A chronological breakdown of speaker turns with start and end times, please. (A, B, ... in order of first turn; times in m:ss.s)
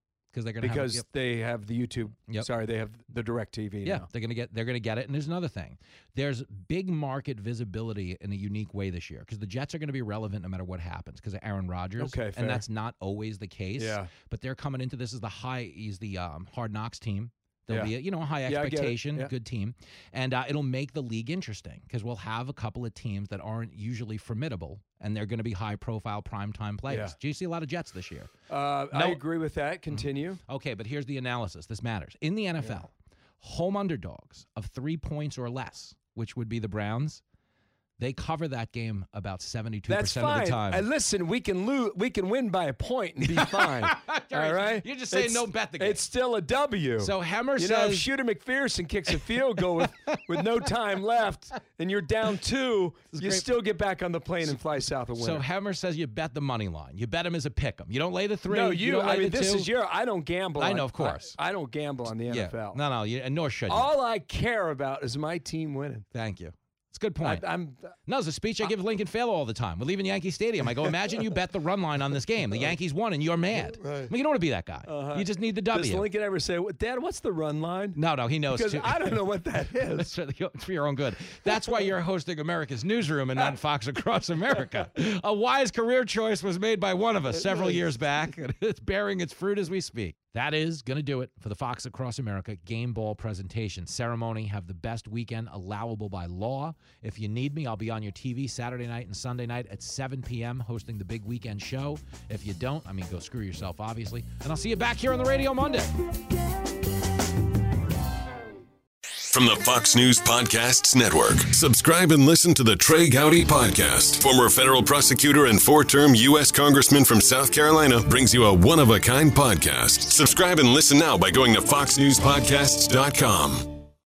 0:00.3-0:01.0 A
0:00.6-0:04.1 B
0:03.8-0:28.3 A
0:12.0-0:12.6 B
0:13.8-0:14.1 B
0:18.4-0:19.3 B
0:26.9-0:27.2 B
0:28.5-0:30.4 B
0:28.9-0:29.2 A
0:29.9-0:37.2 A
0:38.0-0:40.8 A
0:39.9-0:55.5 B
0:43.2-0:46.0 A
0:47.0-0:48.1 A
0:49.8-0:50.7 A
0:53.1-0:53.5 A
0:55.1-0:59.7 A
0:58.5-1:02.8 B
1:00.6-1:01.4 A
1:02.3-1:03.9 A
1:03.7-1:06.1 B
1:06.1-1:07.5 A
1:07.2-1:07.9 B
1:08.1-1:16.1 A
1:13.6-1:14.1 B
1:14.9-1:20.2 B
1:18.0-1:45.9 A
1:49.3-2:03.8 C